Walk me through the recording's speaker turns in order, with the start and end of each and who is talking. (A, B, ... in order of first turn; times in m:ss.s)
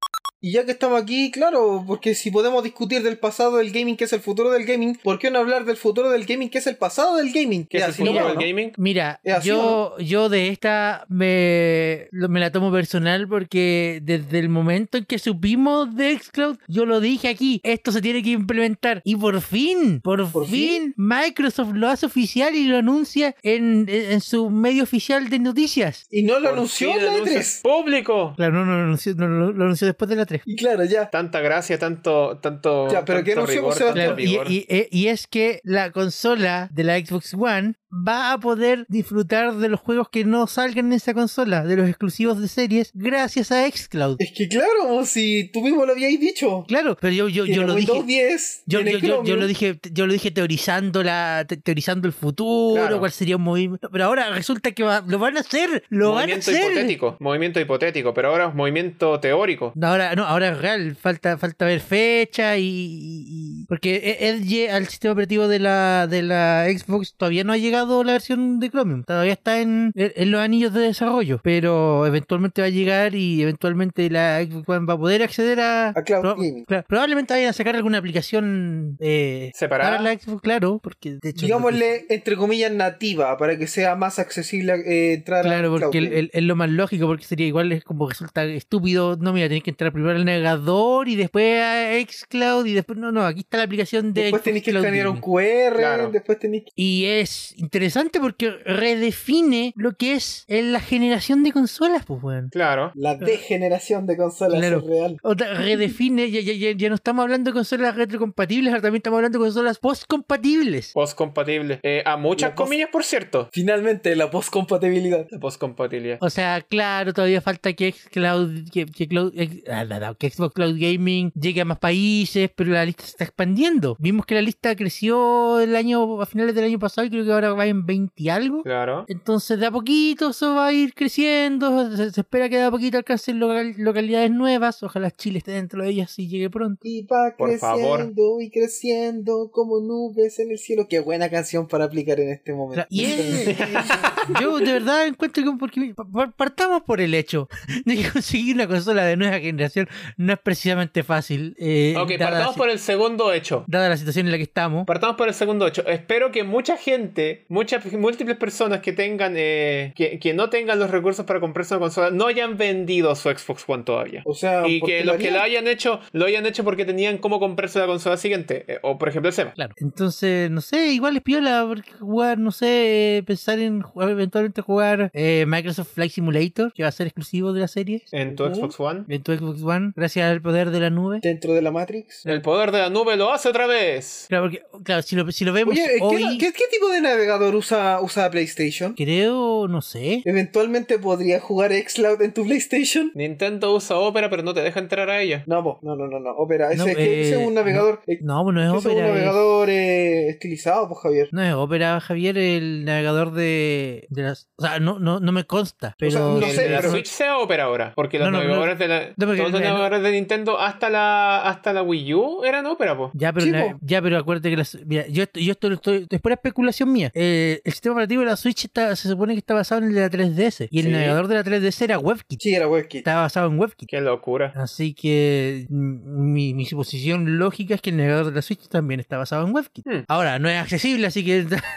0:00.4-0:08.5 A
0:07.7-0:08.8 B
0:08.0-0:26.0 C
0:09.2-0:09.8 A
0:20.3-0:20.8 A
0:26.1-0:27.6 A
0:26.4-0:28.4 B
0:28.4-0:30.4 C
0:30.5-0:31.1 A
0:31.1-0:34.6 B
0:32.9-0:34.2 A
0:33.9-0:44.2 C
0:44.2-0:46.7 A
0:46.7-0:48.1 C
0:47.5-0:49.5 A
0:48.7-0:57.0 C
0:52.7-0:53.1 B
0:56.0-0:59.8 B
0:59.8-1:21.9 C
1:16.0-1:16.7 A
1:19.6-1:20.1 B
1:21.4-1:26.2 A
1:25.4-1:35.2 C
1:34.2-1:36.7 A
1:35.8-1:36.1 B
1:36.8-1:42.5 C
1:42.5-1:43.0 B
1:43.0-1:45.2 A
1:44.5-1:50.9 C
1:50.9-1:53.5 B
1:52.4-1:52.8 A
1:53.5-1:55.3 A
1:55.3-1:56.2 B
1:56.2-2:16.8 C
2:08.6-2:09.1 B
2:16.8-2:24.0 A
2:17.4-2:18.1 B
2:22.8-2:32.6 C
2:23.3-2:24.4 B
2:31.9-2:33.7 B
2:33.7-2:34.9 C
2:34.9-2:49.6 B
2:44.2-2:45.4 A
2:49.6-2:58.1 C
2:58.1-2:59.1 B
2:58.3-2:58.8 A
2:59.1-3:01.2 C
3:01.2-3:02.3 A
3:02.3-3:04.3 B
3:04.3-3:06.5 C
3:05.7-3:09.0 A
3:09.0-3:10.2 C
3:10.2-3:13.1 A
3:13.2-3:15.5 B
3:15.5-3:21.3 A
3:16.7-3:19.5 C
3:21.3-3:27.1 C
3:26.0-3:27.0 A
3:26.4-3:33.2 B
3:28.2-3:29.9 C
3:33.1-3:42.4 C
3:33.4-3:33.8 A
3:40.8-3:41.2 A
3:42.4-3:43.1 A
3:43.0-3:43.9 C
3:43.9-3:44.6 B
3:44.6-3:51.6 C